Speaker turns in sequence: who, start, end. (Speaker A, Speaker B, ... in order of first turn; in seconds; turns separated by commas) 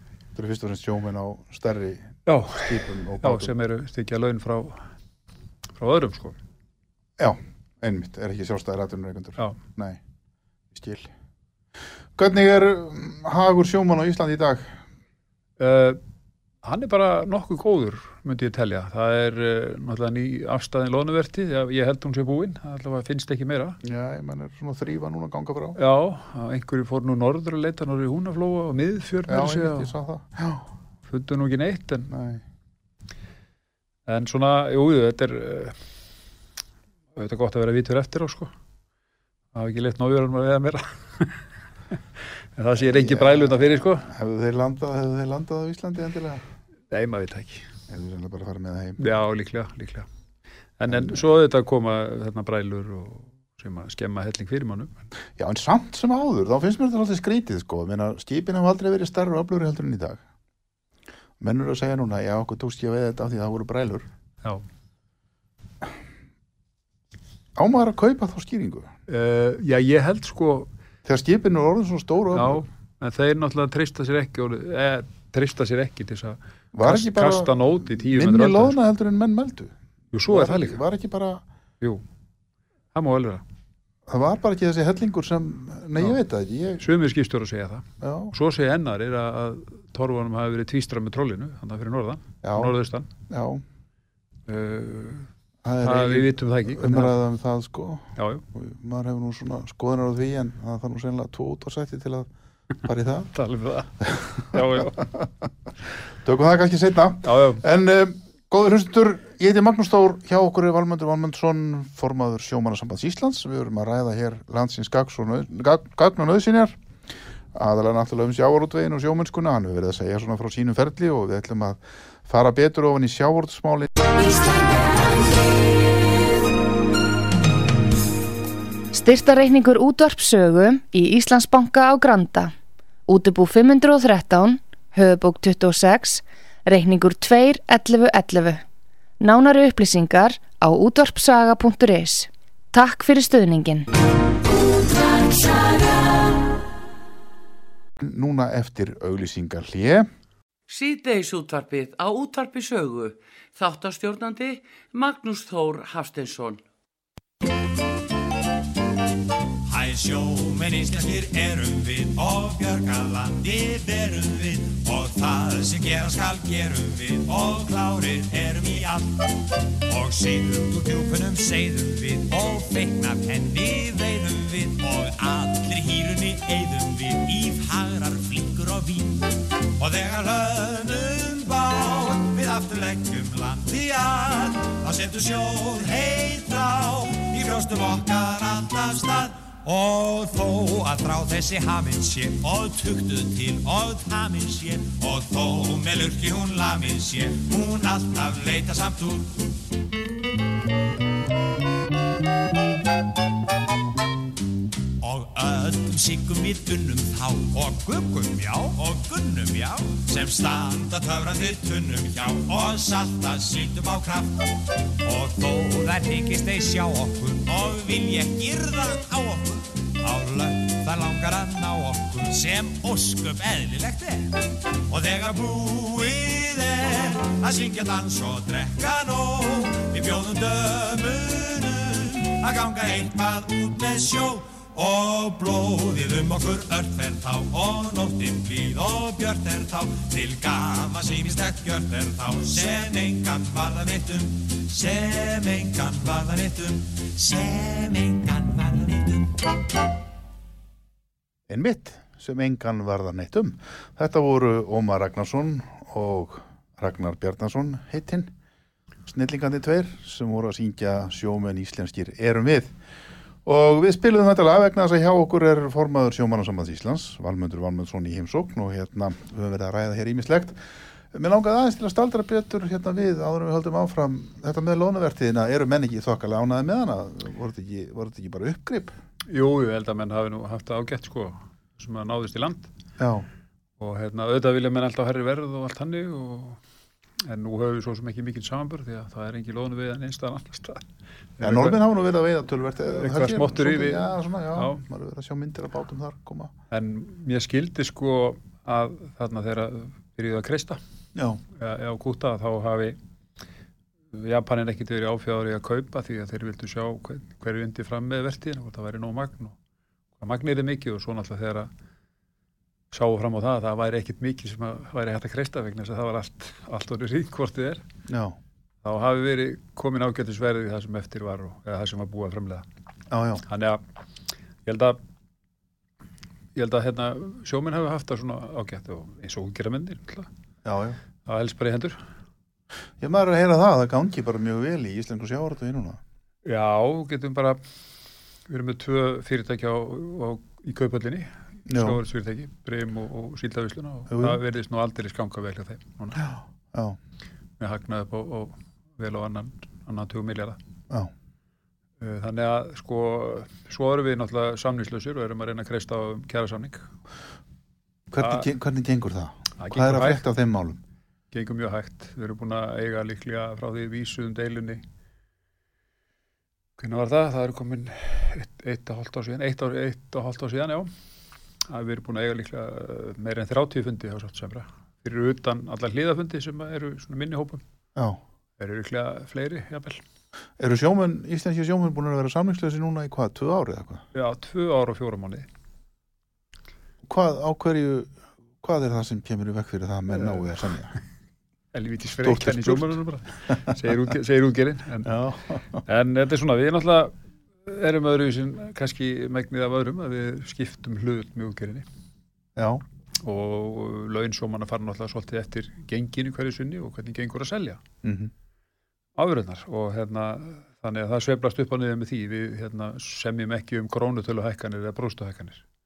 Speaker A: 0.3-3.5, Speaker B: 2.2-4.8, Speaker B: 5.8-6.4, Speaker A: 7.2-10.0, Speaker A: 10.7-11.1, Speaker A: 12.2-14.8, Speaker B: 15.6-16.0, Speaker B: 16.6-23.8, Speaker A: 23.8-25.8, Speaker B: 25.8-29.9, Speaker A: 29.3-30.7, Speaker B: 31.1-32.1, Speaker A: 32.1-32.4, Speaker B: 34.1-35.8, Speaker B: 37.1-38.5, Speaker B: 39.5-41.4, Speaker B: 42.5-44.1, Speaker A: 42.8-46.4, Speaker B: 46.9-47.6, Speaker A: 47.9-49.0, Speaker B: 49.0-50.1, Speaker B: 50.8-55.1, Speaker A: 50.9-51.2, Speaker A: 55.4-60.2, Speaker A: 61.4-64.1, Speaker A: 67.5-68.9, Speaker B: 69.1-70.7, Speaker A: 71.0-72.6, Speaker B: 72.3-78.8, Speaker A: 76.7-79.7, Speaker B: 80.1-80.8, Speaker A: 80.2-81.4, Speaker B: 82.9-83.4, Speaker A: 84.1-86.8, Speaker B: 86.8-93.1, Speaker A: 88.0-88.3, Speaker A: 92.4-92.7, Speaker A: 93.3-93.6, Speaker B: 94.5-95.3, Speaker A: 95.6-102.3, Speaker B: 95.8-97.2, Speaker B: 98.2-98.4, Speaker A: 102.8-103.3, Speaker B: 103.3-105.1, Speaker A: 104.0-105.3, Speaker A: 106.2-116.8, Speaker B: 107.2-107.6, Speaker A: 117.5-124.1, Speaker C: 128.9-132.5, Speaker C: 133.1-138.6, Speaker C: 139.2-143.9, Speaker D: 145.2-146.0, Speaker A: 148.0-150.1, Speaker D: 150.7-156.6, Speaker E: 159.7-199.5, Speaker E: 205.0-249.6, Speaker A: 251.5-258.3, Speaker A: 259.1-262.7, Speaker A: 263.4-270.6, Speaker A: 271.1-278.9, Speaker B: 279.3-282.7, Speaker A: 283.0-283.3, Speaker B: 283.8-286.6, Speaker B: 287.2-290.8, Speaker B: 291.4-291.8, Speaker A: 291.4-296.5, Speaker B: 292.9-294.8, Speaker B: 296.7-300.8, Speaker A: 301.1-301.4, Speaker B: 301.5-303.0, Speaker B: 304.1-309.6, Speaker B: 310.2-311.7, Speaker B: 312.9-317.8, Speaker A: 318.1-318.4, Speaker B: 318.8-322.6, Speaker A: 323.1-323.4, Speaker B: 323.4-323.8, Speaker B: 324.6-325.0, Speaker B: 326.5-330.3, Speaker A: 330.6-331.0, Speaker B: 331.2-332.0, Speaker A: 333.0-336.0, Speaker B: 336.4-337.6, Speaker B: 338.5-346.3, Speaker A: 341.7-342.0, Speaker A: 344.1-344.4, Speaker A: 346.2-347.0, Speaker B: 347.6-350.6, Speaker B: 352.0-356.9, Speaker A: 358.1-360.8, Speaker B: 358.2-358.5, Speaker B: 359.6-360.2, Speaker B: 361.3-364.8, Speaker B: 366.8-370.9, Speaker B: 371.7-377.6, Speaker B: 378.6-380.0, Speaker A: 380.6-384.0, Speaker B: 384.1-385.4, Speaker A: 387.0-390.9, Speaker B: 390.1-390.6, Speaker B: 391.7-395.2, Speaker A: 392.2-392.9, Speaker A: 395.0-395.8, Speaker B: 395.9-397.1, Speaker B: 397.6-401.8, Speaker A: 402.6-402.8, Speaker B: 403.2-407.8, Speaker A: 408.0-408.3, Speaker B: 409.1-415.6